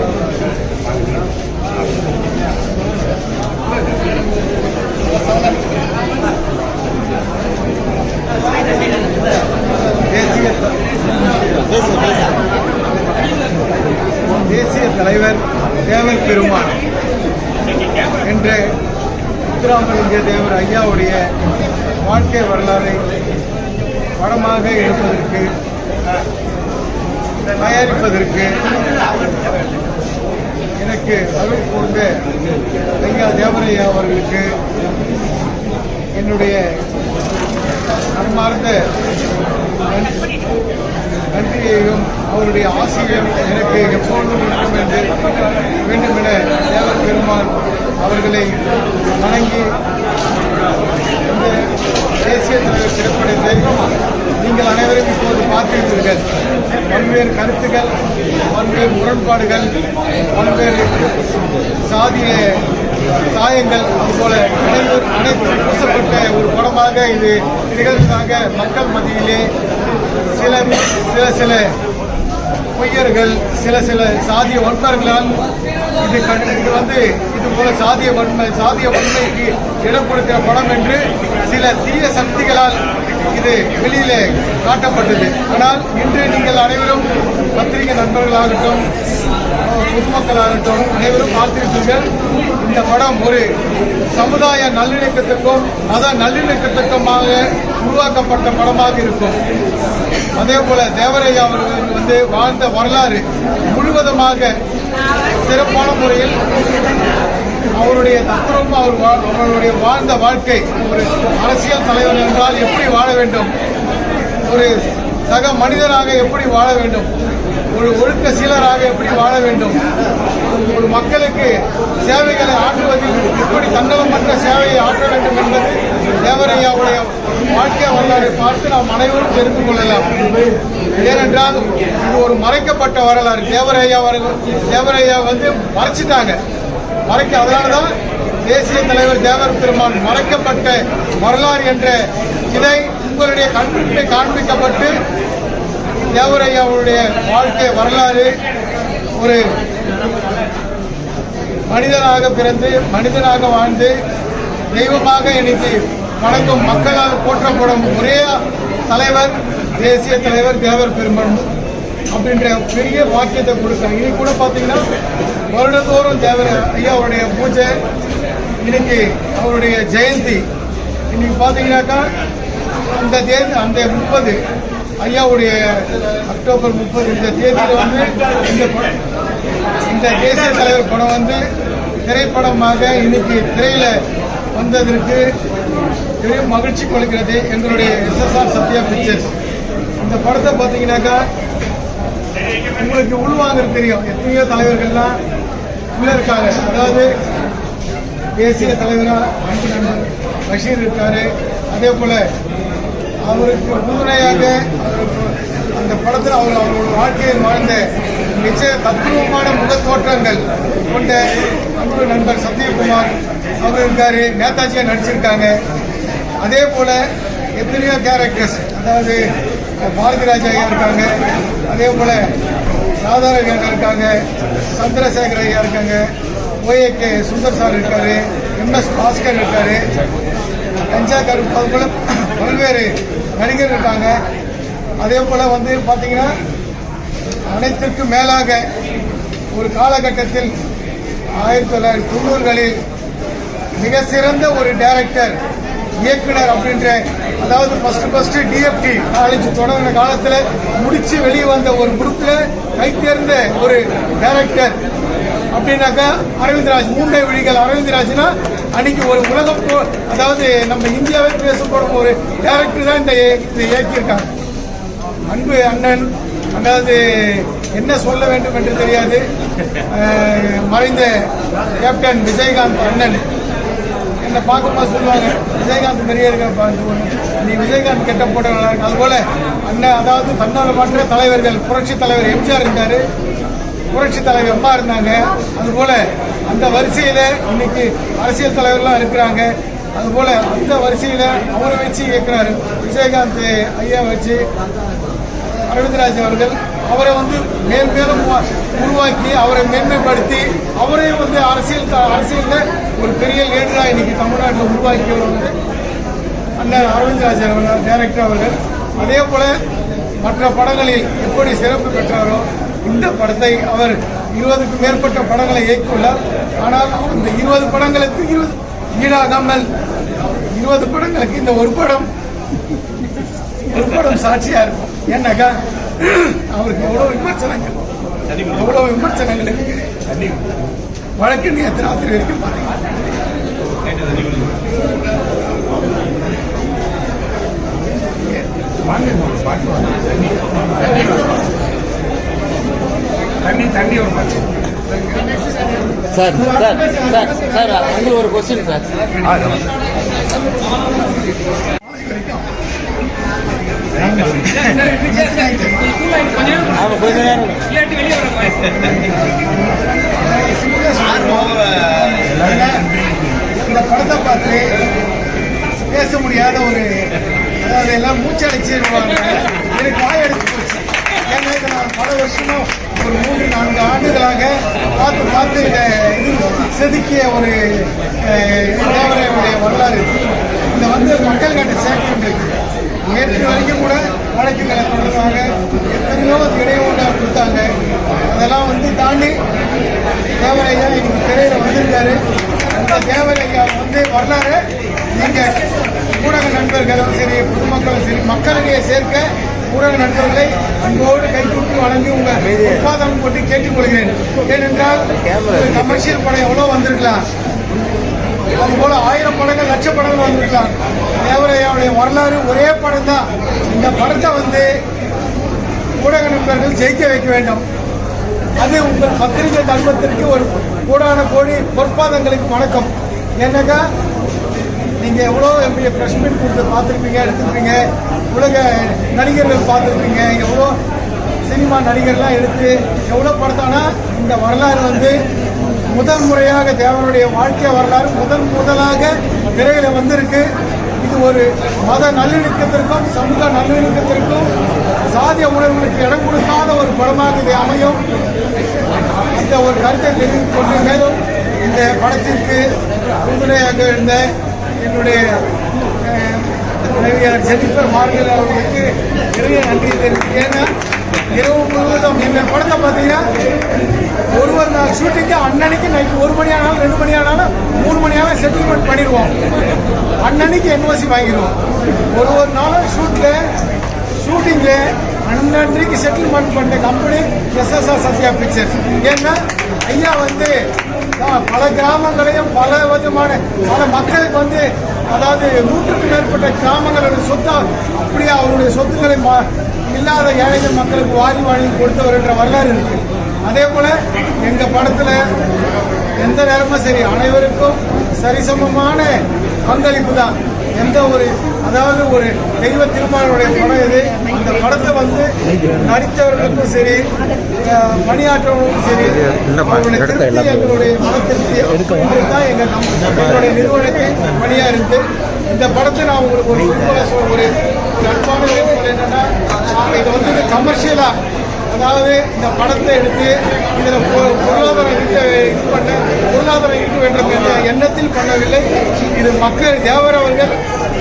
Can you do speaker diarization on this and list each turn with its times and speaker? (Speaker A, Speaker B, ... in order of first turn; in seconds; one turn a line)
Speaker A: 0.8-1.2
Speaker B: 10.1-10.7
Speaker C: 11.7-12.4
Speaker B: 14.5-16.8
Speaker B: 18.2-18.6
Speaker B: 19.6-21.2
Speaker B: 22.0-23.0
Speaker B: 24.2-25.5
Speaker B: 27.6-28.6
Speaker B: 30.8-32.2
Speaker B: 33.0-34.5
Speaker B: 36.1-36.6
Speaker B: 38.1-38.9
Speaker B: 39.9-40.2
Speaker B: 41.3-45.1
Speaker B: 45.9-48.5
Speaker B: 49.2-49.7
Speaker B: 51.3-51.5
Speaker B: 52.2-56.2
Speaker B: 56.8-57.9
Speaker B: 58.5-59.7
Speaker B: 60.3-60.9
Speaker B: 61.9-62.5
Speaker B: 63.3-69.5
Speaker B: 70.3-71.7
Speaker B: 72.8-75.3
Speaker B: 76.0-82.8
Speaker B: 83.3-88.8
Speaker B: 89.7-92.1
Speaker B: 92.6-93.5
Speaker B: 94.1-99.4
Speaker B: 100.4-104.5
Speaker B: 105.4-106.5
Speaker B: 107.8-113.5
Speaker B: 114.4-114.7
Speaker B: 115.3-117.1
Speaker B: 117.7-119.8
Speaker B: 120.5-130.1
Speaker B: 130.9-136.4
Speaker B: 137.1-137.9
Speaker B: 138.5-142.0
Speaker B: 142.5-144.9
Speaker B: 146.1-148.3
Speaker B: 151.7-153.9
Speaker B: 154.7-161.5
Speaker B: 162.1-164.8
Speaker B: 165.5-167.7
Speaker B: 168.6-170.4
Speaker B: 171.1-172.1
Speaker B: 172.9-174.4
Speaker B: 175.0-178.9
Speaker B: 179.9-181.4
Speaker B: 182.1-183.9
Speaker B: 184.5-185.2
Speaker B: 186.2-189.3
Speaker B: 190.0-191.2
Speaker B: 192.8-195.2
Speaker B: 195.9-197.1
Speaker B: 198.4-202.2
Speaker B: 203.3-207.8
Speaker B: 208.3-215.5
Speaker B: 216.4-217.0
Speaker B: 217.6-219.2
Speaker B: 219.8-222.3
Speaker B: 223.0-226.1
Speaker B: 226.6-229.8
Speaker B: 230.9-234.2
Speaker B: 235.0-236.3
Speaker B: 237.5-238.7
Speaker B: 239.5-240.5
Speaker B: 241.4-242.7
Speaker B: 243.8-245.4
Speaker B: 246.0-254.8
Speaker B: 255.5-264.3
Speaker B: 265.3-269.2
Speaker B: 269.9-271.2
Speaker B: 271.8-273.2
Speaker B: 274.2-283.0
Speaker B: 283.9-294.4
Speaker B: 295.7-305.5
Speaker B: 306.6-309.6
Speaker B: 310.2-319.7
Speaker B: 320.5-322.1
Speaker B: 323.7-327.8
Speaker B: 328.5-329.9
Speaker B: 331.2-332.8
Speaker A: 338.9-341.1
Speaker A: 343.4-344.4
Speaker C: 346.1-348.9
Speaker B: 346.3-347.8
Speaker A: 349.2-349.6
Speaker B: 351.9-352.4
Speaker C: 354.4-354.7
Speaker B: 354.7-355.9
Speaker B: 356.5-357.4
Speaker C: 356.7-357.7
Speaker C: 358.3-358.9
Speaker B: 360.1-361.6
Speaker C: 361.1-362.7
Speaker B: 362.2-362.8
Speaker B: 363.6-364.8
Speaker B: 365.9-367.1
Speaker B: 367.6-380.1
Speaker B: 380.7-387.6
Speaker B: 388.2-389.4
Speaker B: 390.4-392.2
Speaker B: 392.7-394.6
Speaker B: 395.1-395.6
Speaker B: 396.2-407.2
Speaker C: 402.4-402.8
Speaker C: 405.2-405.8
Speaker B: 408.6-414.7
Speaker B: 416.0-417.6
Speaker B: 418.6-423.8
Speaker B: 425.0-427.8
Speaker B: 428.3-430.7
Speaker B: 431.4-435.2
Speaker B: 435.9-440.5
Speaker B: 441.0-444.5
Speaker B: 445.1-448.0
Speaker B: 449.3-452.6
Speaker B: 453.2-454.3
Speaker B: 454.8-455.2
Speaker B: 456.0-460.7
Speaker B: 461.3-463.2
Speaker B: 464.3-469.3
Speaker B: 470.2-471.6
Speaker B: 472.1-473.4
Speaker B: 474.2-480.6
Speaker B: 481.2-495.2
Speaker B: 496.2-507.1
Speaker B: 507.6-521.1
Speaker C: 509.2-510.2
Speaker C: 513.1-513.4
Speaker B: 521.7-530.6